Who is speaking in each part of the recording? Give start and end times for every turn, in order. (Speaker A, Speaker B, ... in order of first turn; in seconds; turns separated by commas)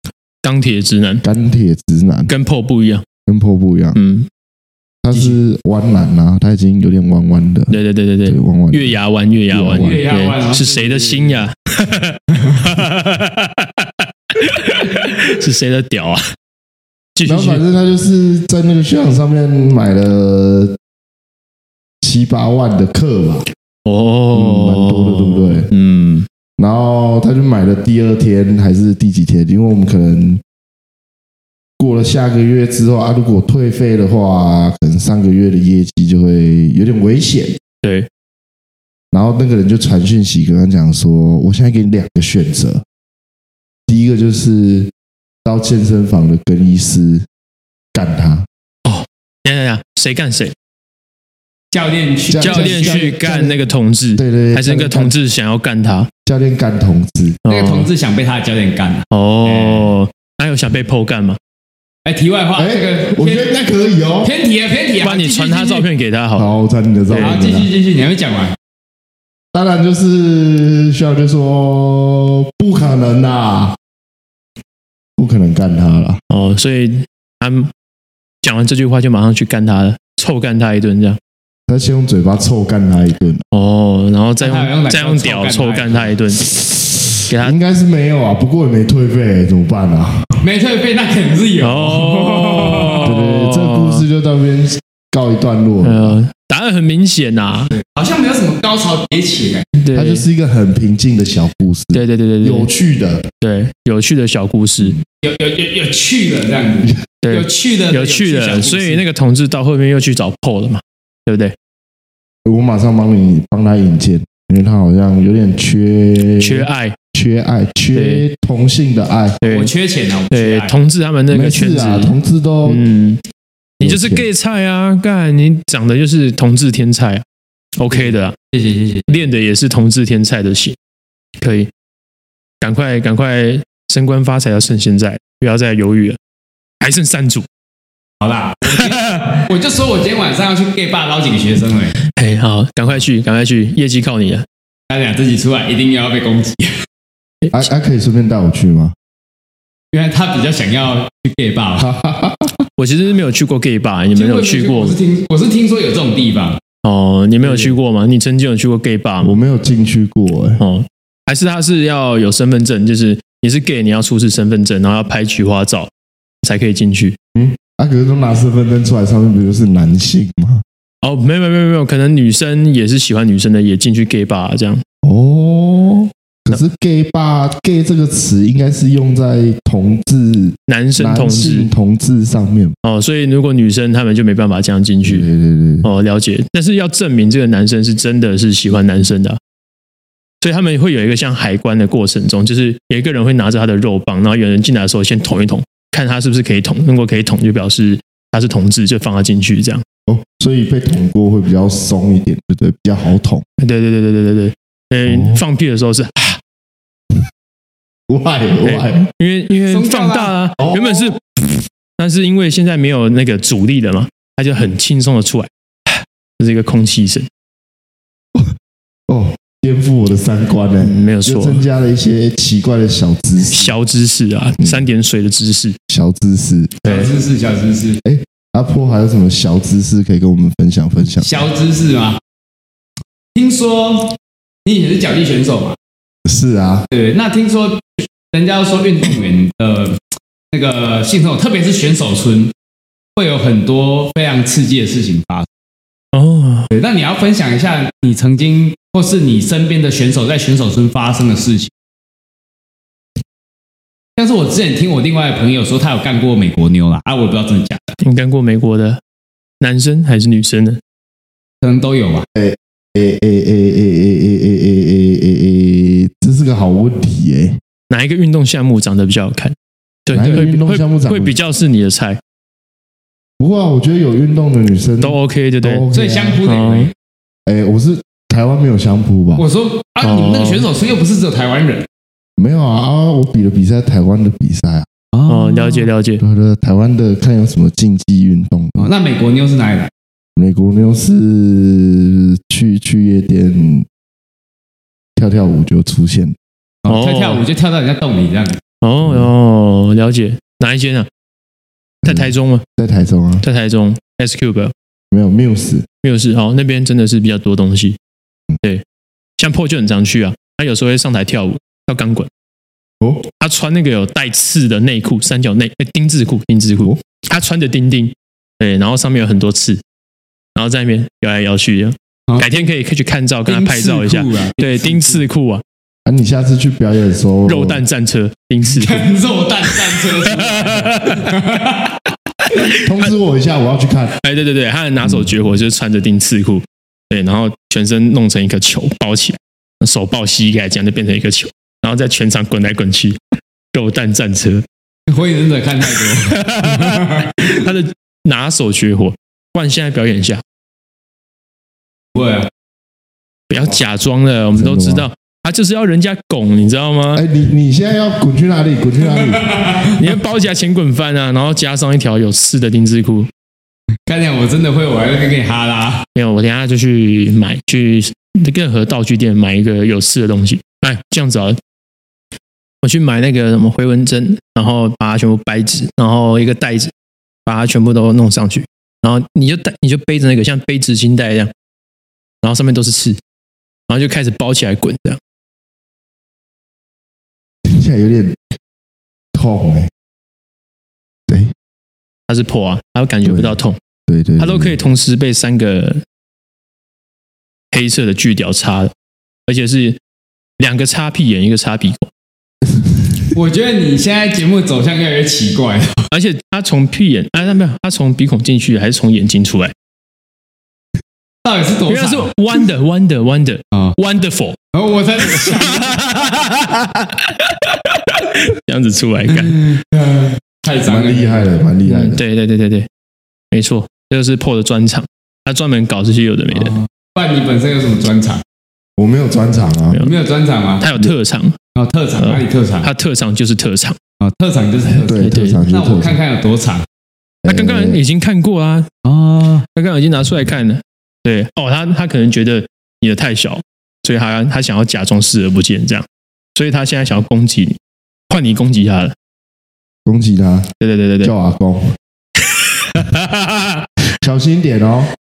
Speaker A: 0.4-1.2, Speaker B: 1.2-2.3, Speaker A: 2.3-3.0, Speaker B: 3.3-4.0, Speaker A: 3.9-4.3, Speaker B: 5.0-7.7, Speaker A: 7.7-16.2, Speaker B: 8.3-8.9, Speaker B: 9.5-10.0, Speaker C: 9.7-11.4, Speaker A: 17.1-17.6, Speaker B: 17.2-20.8, Speaker B: 22.0-23.4, Speaker A: 23.8-26.3, Speaker B: 24.3-25.7, Speaker B: 26.6-30.4, Speaker B: 31.8-37.6, Speaker A: 37.8-38.1, Speaker B: 39.1-42.8, Speaker B: 43.9-44.9, Speaker B: 45.4-47.2, Speaker B: 47.9-48.5, Speaker A: 48.8-50.5, Speaker C: 51.7-53.1, Speaker B: 52.3-53.6, Speaker A: 52.4-56.1, Speaker B: 54.1-55.1, Speaker B: 56.2-57.4, Speaker A: 57.4-57.9, Speaker C: 57.5-59.9, Speaker A: 59.1-61.4, Speaker C: 62.0-63.5, Speaker B: 62.5-64.3, Speaker C: 64.2-65.8, Speaker A: 65.0-66.5, Speaker B: 66.4-67.7, Speaker A: 67.1-67.4, Speaker C: 67.1-68.5, Speaker B: 69.5-73.8, Speaker B: 75.2-76.2, Speaker A: 76.3-77.7, Speaker A: 78.4-81.2, Speaker B: 81.7-83.4, Speaker A: 83.5-86.5, Speaker C: 84.4-86.1, Speaker A: 87.3-87.6, Speaker B: 87.4-90.4, Speaker C: 90.4-93.1, Speaker A: 91.6-94.0, Speaker B: 93.0-96.2, Speaker A: 95.8-97.8, Speaker C: 97.8-99.7, Speaker A: 99.8-100.2, Speaker B: 99.9-103.2, Speaker A: 101.9-102.7, Speaker A: 103.4-105.0, Speaker C: 105.2-109.0, Speaker A: 107.2-111.5, Speaker B: 112.4-119.4, Speaker A: 116.4-117.0, Speaker A: 117.9-118.2, Speaker A: 119.4-119.7, Speaker C: 119.4-120.8, Speaker A: 120.3-123.2, Speaker B: 121.3-122.8, Speaker B: 123.8-124.2, Speaker A: 123.8-127.2, Speaker A: 127.8-128.3, Speaker C: 127.9-129.1, Speaker A: 129.1-130.8, Speaker A: 131.4-131.7, Speaker A: 132.6-136.2, Speaker A: 136.8-137.5, Speaker C: 138.2-141.9, Speaker A: 138.7-139.4, Speaker A: 142.1-144.4, Speaker C: 144.9-146.8, Speaker B: 147.5-148.9, Speaker C: 149.9-151.9, Speaker B: 151.8-152.6, Speaker A: 152.8-154.9, Speaker C: 154.1-156.6, Speaker A: 156.8-159.4, Speaker B: 159.2-160.6, Speaker A: 160.6-165.9, Speaker A: 166.4-167.2, Speaker B: 167.3-170.6, Speaker A: 171.0-174.8, Speaker B: 175.0-182.8, Speaker A: 180.7-181.7, Speaker A: 182.8-185.3, Speaker B: 185.0-185.9, Speaker A: 185.8-189.4, Speaker A: 190.4-199.8, Speaker B: 200.1-203.4, Speaker A: 203.6-206.4, Speaker B: 205.1-205.4, Speaker B: 208.1-209.1, Speaker A: 208.6-211.2, Speaker C: 209.7-210.3, Speaker B: 210.6-211.1, Speaker A: 212.0-217.3, Speaker B: 219.1-223.7, Speaker A: 220.8-221.6, Speaker A: 223.4-225.8, Speaker B: 224.6-224.8, Speaker B: 225.9-226.8, Speaker A: 226.8-227.1, Speaker C: 226.8-228.0, Speaker B: 228.0-231.4, Speaker C: 231.2-232.2, Speaker C: 233.3-235.8, Speaker B: 236.2-236.9, Speaker C: 236.9-242.5, Speaker C: 243.2-245.5, Speaker A: 246.1-246.7, Speaker C: 246.7-251.7, Speaker C: 254.2-258.0, Speaker A: 258.0-259.0, Speaker A: 259.6-260.8, Speaker C: 261.6-262.2, Speaker B: 262.3-267.6, Speaker A: 267.9-269.5, Speaker A: 270.1-272.2, Speaker B: 270.1-271.3, Speaker C: 270.1-270.4, Speaker B: 273.4-276.4, Speaker A: 275.0-275.9, Speaker C: 275.9-276.9, Speaker A: 276.4-276.9, Speaker B: 277.4-279.4, Speaker C: 279.4-281.9, Speaker A: 280.0-280.6, Speaker B: 282.4-284.9, Speaker C: 285.1-285.9, Speaker A: 285.3-286.2, Speaker B: 286.2-288.9, Speaker C: 288.8-289.9, Speaker B: 290.4-293.9, Speaker B: 295.2-296.4, Speaker C: 296.8-298.6, Speaker A: 296.9-297.4, Speaker A: 298.8-301.1, Speaker B: 302.0-303.4, Speaker A: 302.0-302.6, Speaker A: 303.4-304.7, Speaker B: 305.1-305.9, Speaker A: 306.0-308.0, Speaker A: 309.4-312.3, Speaker A: 313.4-319.8, Speaker A: 320.6-325.6, Speaker C: 322.3-322.6, Speaker C: 323.5-325.2, Speaker B: 326.1-327.8, Speaker A: 327.4-329.1, Speaker C: 328.7-331.9, Speaker A: 329.7-331.4, Speaker A: 332.4-332.9, Speaker B: 332.8-334.1, Speaker A: 334.2-343.2, Speaker A: 343.7-344.6, Speaker C: 345.1-347.5, Speaker A: 346.0-350.4, Speaker C: 352.1-352.5, Speaker A: 353.5-357.2, Speaker B: 354.6-355.1, Speaker B: 357.1-359.6, Speaker C: 359.2-359.9, Speaker A: 359.9-363.3, Speaker C: 364.1-366.0, Speaker A: 366.1-371.6, Speaker A: 372.8-376.9, Speaker A: 377.4-381.5, Speaker A: 382.4-383.2, Speaker A: 383.9-385.2, Speaker B: 387.6-388.4, Speaker B: 389.3-389.9, Speaker B: 391.3-391.5, Speaker A: 392.3-393.8, Speaker B: 393.2-394.8, Speaker A: 394.4-396.0, Speaker A: 397.7-398.9, Speaker A: 399.5-400.0, Speaker A: 400.6-402.1, Speaker C: 403.3-406.1, Speaker A: 406.1-409.7, Speaker C: 411.4-412.3, Speaker A: 411.9-414.6, Speaker C: 414.7-416.1, Speaker A: 415.3-419.7, Speaker C: 419.4-421.5, Speaker B: 420.8-422.2, Speaker A: 421.8-422.9, Speaker A: 423.5-426.7, Speaker C: 426.5-428.4, Speaker B: 429.0-430.0, Speaker C: 430.0-430.9, Speaker A: 430.8-431.6, Speaker C: 431.7-432.9, Speaker A: 432.2-434.0, Speaker C: 434.2-436.9, Speaker B: 435.0-436.2, Speaker A: 435.2-435.6, Speaker B: 437.4-438.0, Speaker A: 437.5-438.9, Speaker C: 439.0-439.6, Speaker A: 439.7-447.8, Speaker A: 448.3-449.1, Speaker B: 450.1-450.7, Speaker A: 450.8-451.3, Speaker B: 451.2-451.9, Speaker A: 452.4-453.9, Speaker B: 454.2-455.1